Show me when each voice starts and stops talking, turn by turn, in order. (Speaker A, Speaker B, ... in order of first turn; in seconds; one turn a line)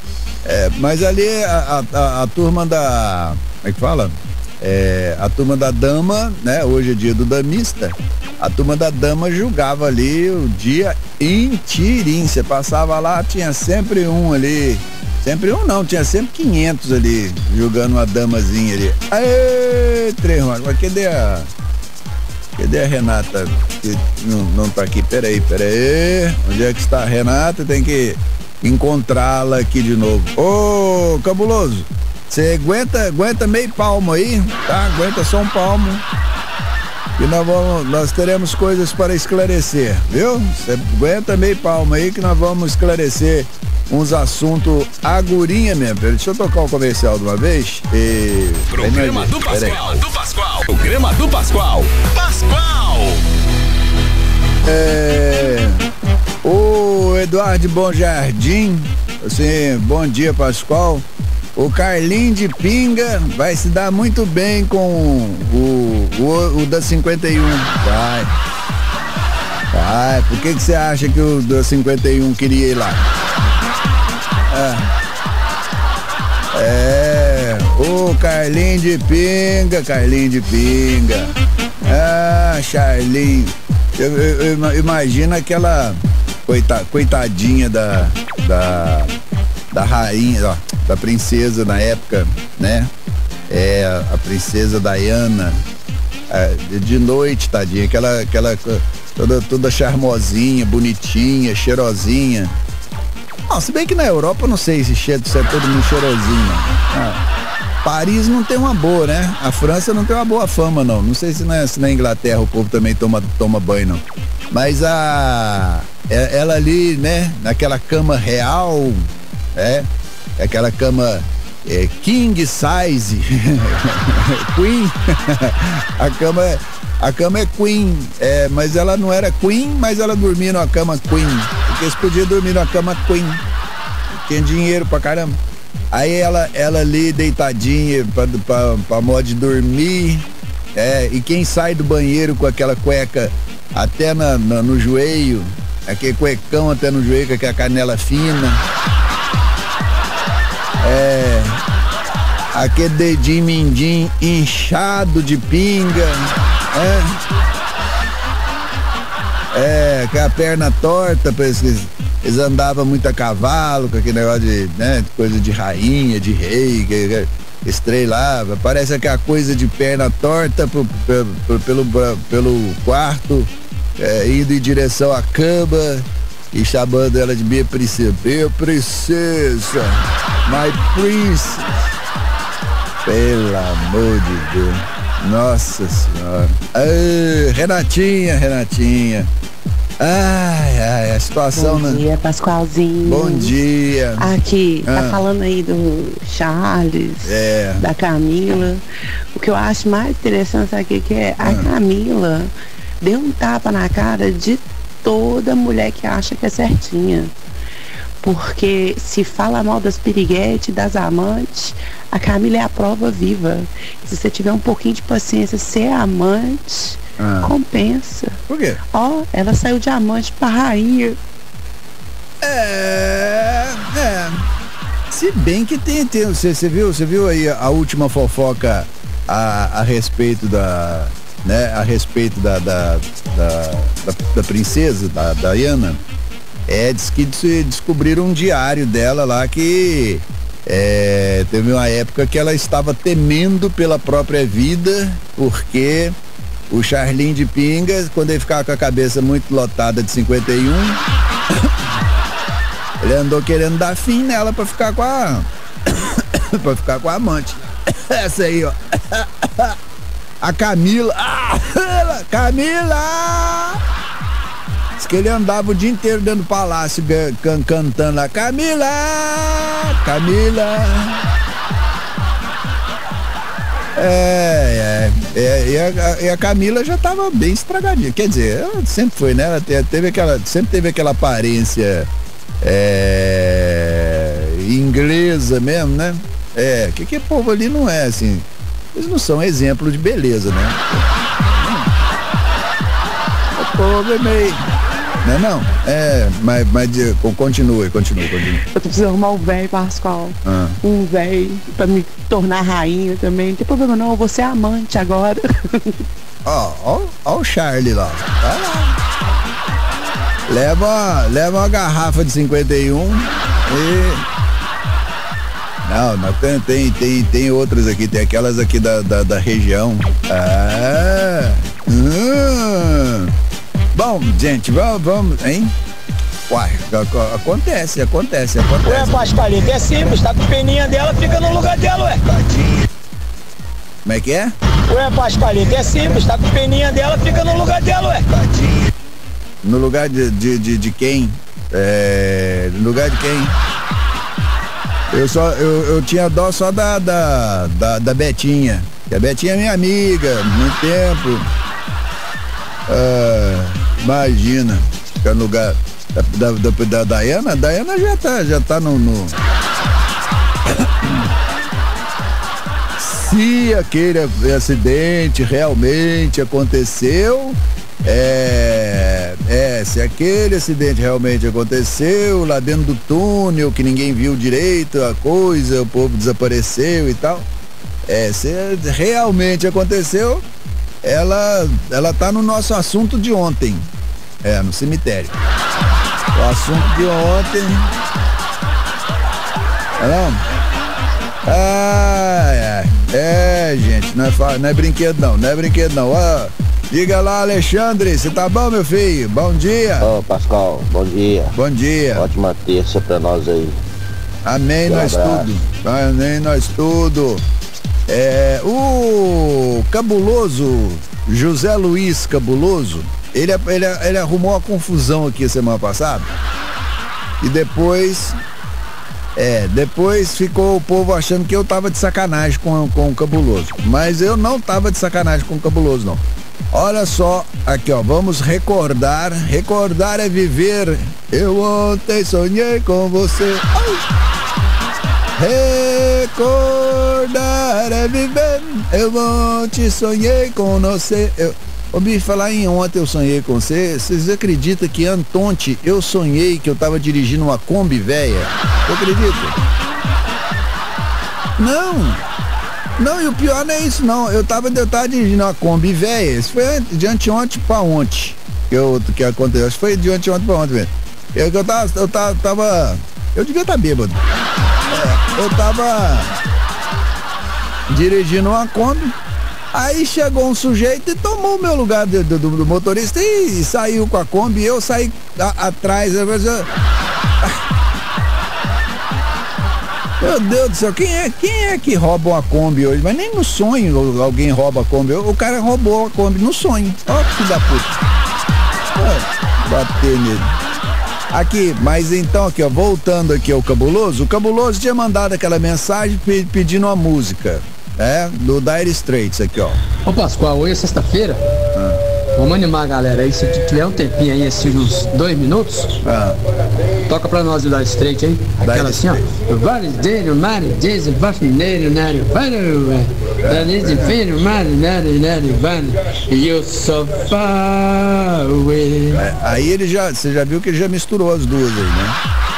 Speaker A: 0.4-21.5
Speaker A: 22.6-36.0
Speaker A: 37.2-49.8
Speaker B: 48.7-53.2
Speaker A: 54.6-55.8
Speaker A: 56.4-61.0
Speaker A: 61.5-68.3
Speaker A: 69.7-73.0
Speaker A: 74.5-74.9
Speaker A: 76.5-89.1
Speaker A: 89.7-92.9
Speaker A: 93.5-95.6
Speaker A: 96.3-102.5
Speaker A: 103.5-107.2
Speaker A: 107.8-133.4
Speaker A: 134.1-135.4
Speaker A: 135.9-148.6
Speaker A: 150.8-151.6
Speaker A: 152.5-157.2
Speaker A: 159.5-181.8
Speaker A: 183.0-189.3
Speaker A: 190.0-192.0
Speaker C: 191.5-193.5
Speaker A: 193.0-194.3
Speaker C: 194.2-198.8
Speaker A: 194.9-195.2
Speaker A: 197.2-197.9
Speaker C: 199.3-207.3
Speaker A: 201.4-201.7
Speaker C: 208.2-218.3
Speaker A: 217.2-217.5
Speaker A: 218.5-218.8
Speaker C: 218.9-221.2
Speaker A: 222.4-224.4
Speaker A: 225.1-236.0
Speaker A: 236.7-246.2
Speaker A: 246.7-251.0
Speaker A: 253.0-259.8
Speaker A: 260.4-263.8
Speaker A: 265.0-271.2
Speaker A: 273.9-282.1
Speaker A: 282.6-291.9
Speaker A: 293.5-294.6
Speaker A: 295.2-298.6
Speaker C: 298.7-306.0
Speaker A: 300.4-300.8
Speaker A: 306.4-308.9
Speaker A: 310.5-314.2
Speaker A: 315.8-323.3
Speaker A: 323.9-325.7
Speaker A: 326.5-329.2
Speaker D: 328.8-332.2
Speaker A: 334.0-334.5
Speaker D: 334.9-338.3
Speaker A: 339.6-343.6
Speaker A: 345.1-351.5
Speaker A: 352.9-359.4
Speaker A: 363.0-377.4
Speaker A: 378.1-380.4
Speaker A: 381.0-383.9
Speaker A: 384.4-385.3
Speaker A: 386.3-387.9
Speaker A: 390.0-390.4
Speaker A: 391.4-400.1
Speaker E: 400.0-401.6
Speaker A: 401.5-402.3
Speaker E: 402.1-403.8
Speaker A: 404.4-407.4
Speaker E: 404.9-405.6
Speaker A: 408.1-416.3
Speaker A: 417.4-418.4
Speaker A: 419.4-434.1
Speaker A: 435.4-449.6
Speaker A: 451.6-452.2
Speaker A: 453.0-464.2
Speaker A: 464.9-466.3
Speaker A: 467.9-469.1
Speaker A: 469.7-476.7
Speaker A: 480.2-488.0
Speaker A: 488.9-490.5
Speaker A: 491.3-499.8
Speaker F: 500.0-501.4
Speaker A: 501.7-502.0
Speaker F: 502.3-506.0
Speaker A: 506.0-506.4
Speaker F: 507.1-519.2
Speaker A: 508.6-509.3
Speaker A: 513.4-514.2
Speaker A: 519.1-522.2